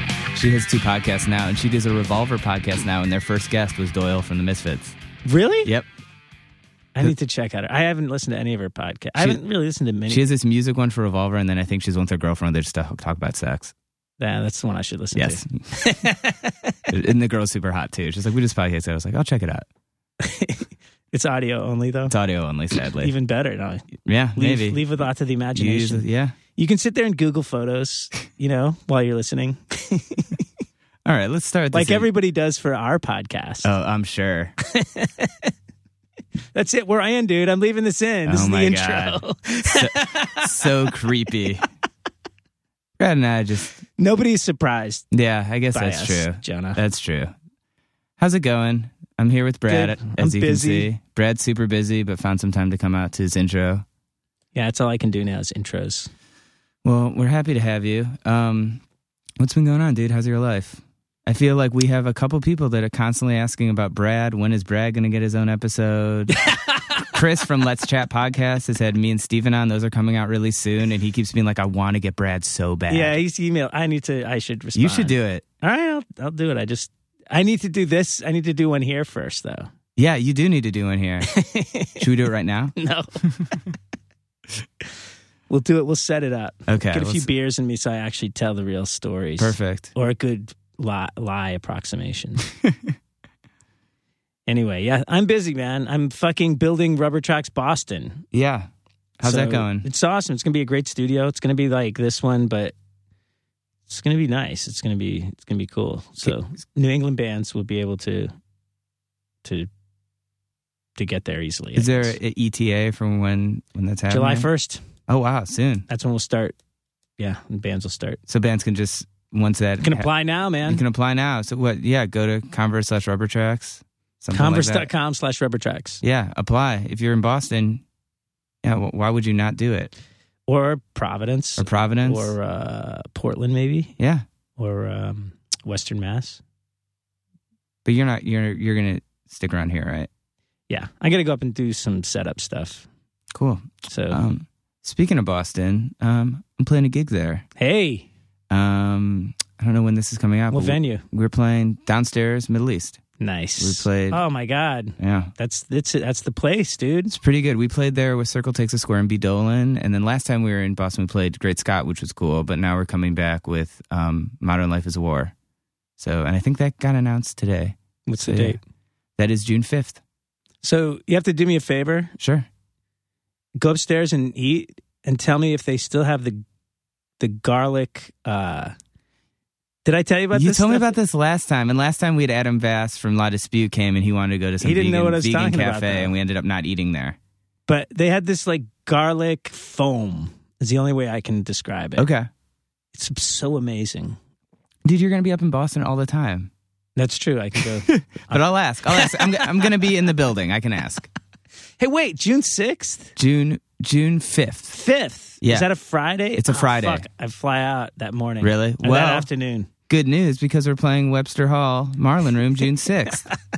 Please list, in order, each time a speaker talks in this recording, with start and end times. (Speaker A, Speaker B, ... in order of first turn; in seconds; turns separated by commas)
Speaker A: 0.3-5.0, Speaker B: 5.3-5.7, Speaker B: 7.0-10.2, Speaker A: 10.1-13.7, Speaker B: 14.2-16.7, Speaker A: 15.2-15.6, Speaker A: 16.9-19.7, Speaker B: 20.2-22.1, Speaker A: 22.1-23.1, Speaker B: 23.0-26.0, Speaker A: 24.1-24.8, Speaker A: 25.5-26.4, Speaker B: 26.6-30.4, Speaker A: 31.1-32.1, Speaker B: 31.7-33.7, Speaker A: 33.6-34.5, Speaker B: 34.7-35.5, Speaker B: 36.5-40.7, Speaker A: 38.3-41.7, Speaker A: 43.0-43.8, Speaker B: 44.0-45.1, Speaker A: 45.1-47.3, Speaker B: 45.7-46.8, Speaker A: 48.2-53.8, Speaker B: 49.7-50.9, Speaker B: 54.5-56.1, Speaker A: 56.8-58.8, Speaker A: 59.4-66.5, Speaker B: 66.4-67.1, Speaker A: 67.1-73.2, Speaker B: 72.9-79.7, Speaker A: 74.8-75.4, Speaker A: 80.0-81.4, Speaker B: 81.3-82.1, Speaker A: 82.0-82.8, Speaker B: 82.8-83.6, Speaker B: 85.5-92.5, Speaker A: 86.7-87.3, Speaker A: 89.4-89.9, Speaker B: 94.5-98.2, Speaker A: 98.3-98.7, Speaker A: 99.2-99.9, Speaker B: 99.2-102.7, Speaker B: 103.9-108.3, Speaker B: 111.0-112.2, Speaker A: 111.8-114.5, Speaker B: 114.1-114.8, Speaker A: 115.1-115.9, Speaker B: 115.9-116.6, Speaker B: 117.2-118.2, Speaker A: 118.3-120.1, Speaker B: 119.8-120.8, Speaker A: 120.7-124.9, Speaker B: 124.3-126.0, Speaker A: 126.0-127.8, Speaker A: 128.6-129.9, Speaker B: 130.5-133.9, Speaker A: 131.6-132.3, Speaker A: 134.0-134.2, Speaker B: 134.6-136.4, Speaker A: 137.8-140.1, Speaker B: 140.7-142.9, Speaker A: 143.3-147.5, Speaker B: 143.9-144.2, Speaker B: 147.6-148.1, Speaker A: 148.5-153.0, Speaker B: 150.5-151.0, Speaker B: 153.2-157.2, Speaker A: 153.6-154.2, Speaker A: 155.0-155.3, Speaker A: 157.1-165.3, Speaker A: 166.0-168.6, Speaker B: 168.1-168.6, Speaker A: 169.2-170.0, Speaker B: 170.6-172.1, Speaker A: 172.2-172.5, Speaker B: 173.6-176.4, Speaker B: 177.2-178.7, Speaker B: 179.8-180.9, Speaker A: 180.3-187.2, Speaker B: 184.6-186.1, Speaker B: 187.7-192.1, Speaker A: 192.0-192.3, Speaker B: 192.9-194.2, Speaker A: 194.8-196.5, Speaker B: 197.0-199.5, Speaker A: 197.9-201.1, Speaker B: 201.8-203.1, Speaker A: 203.2-204.8, Speaker B: 204.7-209.7, Speaker A: 205.4-205.7, Speaker A: 206.4-207.1, Speaker A: 208.4-209.3, Speaker A: 209.9-213.3